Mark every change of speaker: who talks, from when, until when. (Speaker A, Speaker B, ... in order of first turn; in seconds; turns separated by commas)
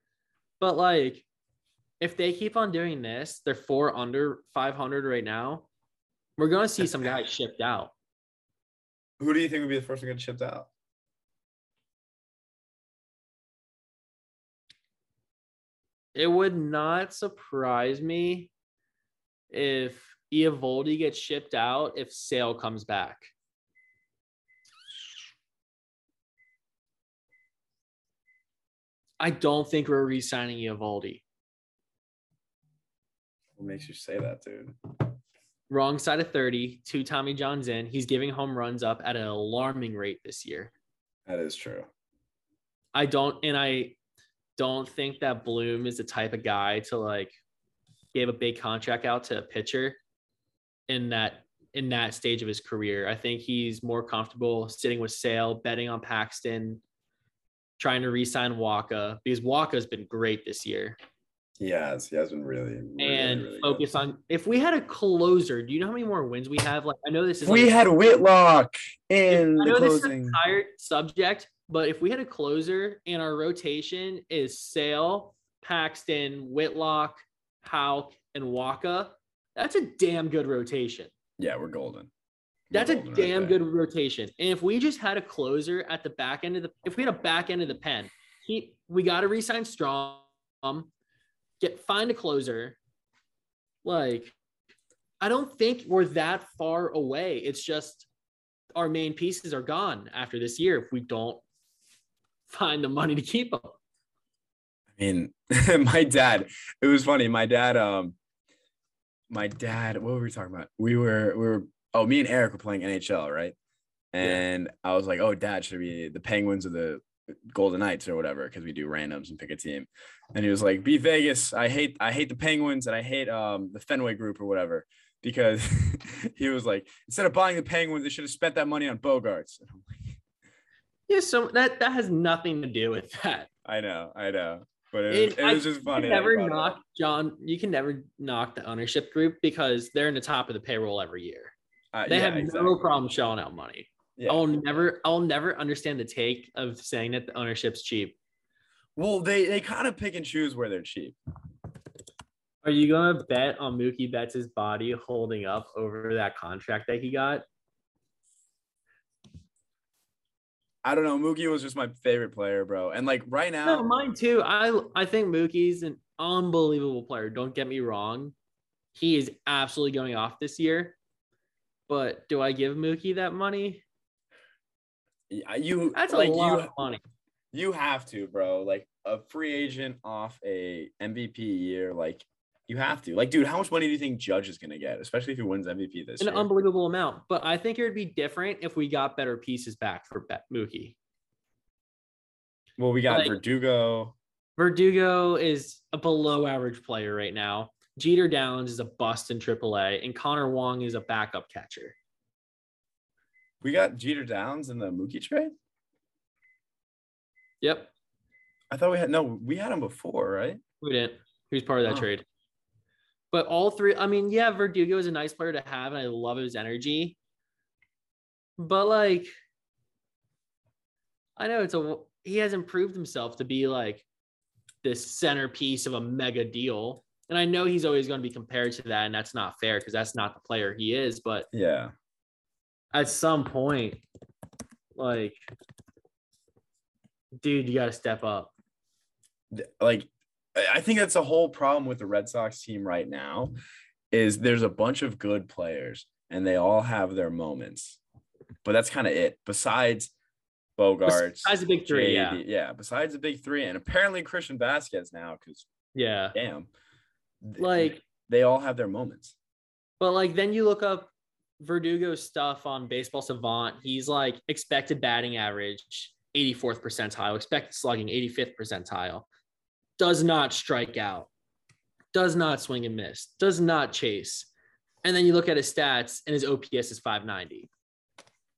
Speaker A: 0.6-1.2, Speaker A: 2.0-5.7, Speaker A: 6.4-7.9, Speaker B: 9.2-10.7, Speaker A: 16.1-18.5, Speaker A: 19.5-23.3, Speaker A: 29.2-31.2, Speaker B: 33.6-34.8, Speaker A: 35.7-40.7, Speaker B: 41.2-41.9, Speaker A: 42.9-44.0, Speaker A: 44.6-47.3, Speaker A: 48.1-50.0, Speaker A: 50.9-56.8, Speaker A: 57.8-61.0, Speaker B: 61.6-63.8, Speaker A: 63.0-67.9, Speaker B: 67.4-70.4, Speaker A: 69.3-81.1, Speaker B: 81.4-82.1, Speaker B: 82.7-83.6, Speaker A: 82.7-90.9, Speaker A: 91.6-92.8, Speaker A: 93.8-94.3, Speaker A: 95.2-98.1, Speaker A: 98.7-101.4, Speaker A: 102.5-103.8, Speaker B: 105.0-108.2, Speaker B: 109.3-113.5, Speaker B: 114.1-130.2, Speaker A: 131.1-133.5, Speaker B: 133.6-136.8, Speaker A: 135.1-141.5, Speaker B: 141.9-142.9, Speaker A: 142.1-148.2, Speaker B: 144.2-144.5, Speaker B: 148.9-151.2, Speaker A: 152.6-157.4, Speaker B: 160.8-163.9, Speaker A: 163.6-168.3, Speaker A: 168.9-170.9, Speaker A: 171.9-173.8, Speaker B: 175.3-176.8, Speaker A: 175.9-177.0, Speaker B: 177.5-186.5, Speaker A: 186.2-190.9, Speaker B: 192.8-194.2, Speaker A: 193.1-193.4, Speaker A: 194.6-201.9, Speaker B: 203.6-205.5, Speaker A: 207.6-207.9, Speaker B: 208.7-210.6, Speaker A: 210.8-212.2, Speaker A: 213.3-217.2, Speaker A: 218.6-219.3, Speaker A: 221.4-224.0, Speaker A: 224.8-231.5, Speaker B: 231.5-231.9, Speaker A: 232.9-234.0, Speaker A: 234.9-235.4, Speaker A: 237.4-238.5, Speaker B: 239.5-243.5, Speaker B: 244.1-248.0, Speaker B: 248.6-250.1, Speaker B: 250.8-255.7, Speaker A: 251.1-252.4, Speaker A: 255.9-256.4, Speaker B: 256.3-256.7, Speaker B: 257.4-259.3, Speaker A: 257.6-258.0, Speaker A: 260.0-261.1, Speaker A: 261.6-269.3, Speaker A: 270.0-271.3, Speaker A: 272.1-274.5, Speaker A: 275.0-277.7